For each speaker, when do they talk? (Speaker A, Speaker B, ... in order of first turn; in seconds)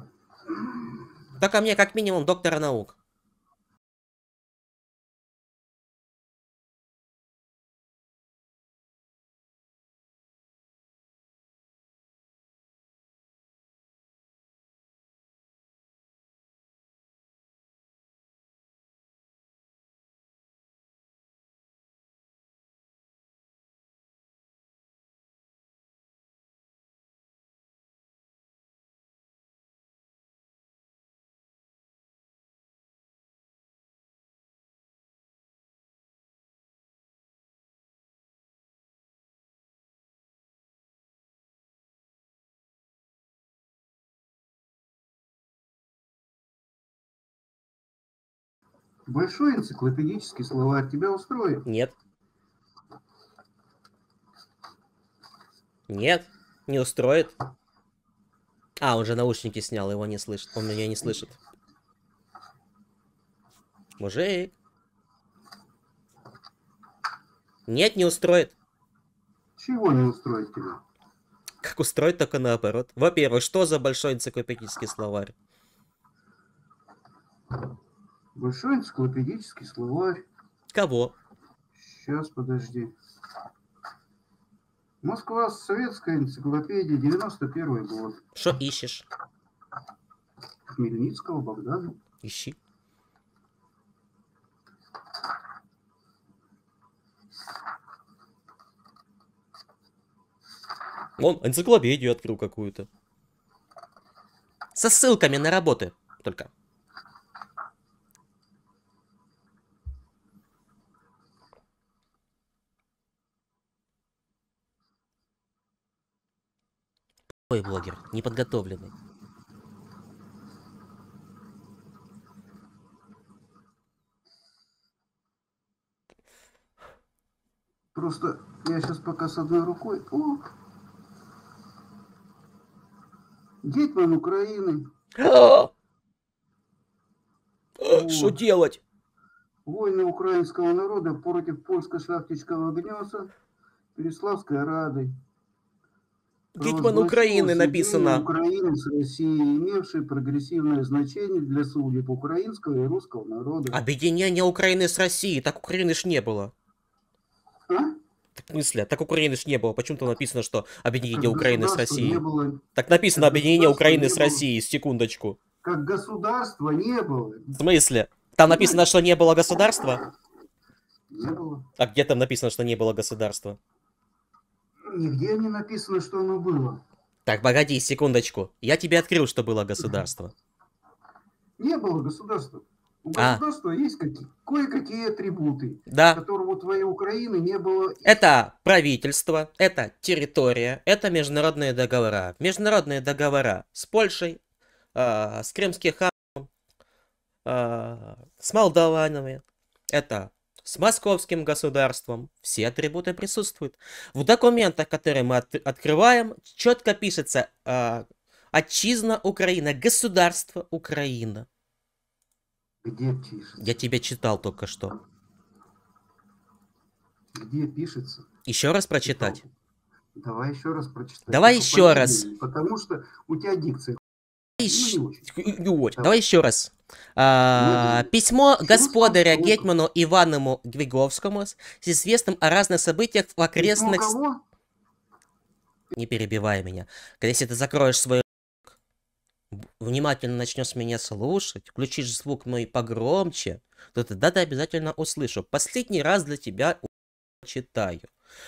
Speaker A: 1.4-3.0, 51.7-52.0, 55.9-57.4, 58.8-61.4, 64.0-64.5, 67.7-68.5, 71.6-75.3, 80.7-81.2, 88.3-89.1, 92.2-92.6, 101.2-102.9, 104.8-106.5, 117.5-118.9, 135.2-135.7, 137.8-138.8, 146.6-148.2, 153.7-156.5, 158.4-162.2, 162.8-165.4, 167.6-170.0, 171.8-173.6, 177.3-180.3, 183.2-183.4, 185.9-186.2, 188.1-194.4, 194.9-196.5, 197.4-211.5, 213.6-215.0, 218.5-219.4, 221.3-222.3, 224.6-234.2, 235.9-238.8, 239.5-248.1
Speaker B: 49.1-51.7, 69.6-70.8, 78.3-80.2, 81.8-82.9, 85.0-88.2, 90.7-92.0, 128.0-130.5, 133.6-134.9, 137.9-138.4, 139.7-143.3, 143.9-145.1, 146.6-153.8, 157.7-158.0, 161.1-164.4, 165.6-167.6, 168.5-168.8, 171.1-171.7, 174.9-176.8, 181.6-188.2, 212.8-213.7, 217.3-218.3, 219.1-219.5, 220.2-224.0, 224.6-225.3, 227.6-229.7, 233.6-234.4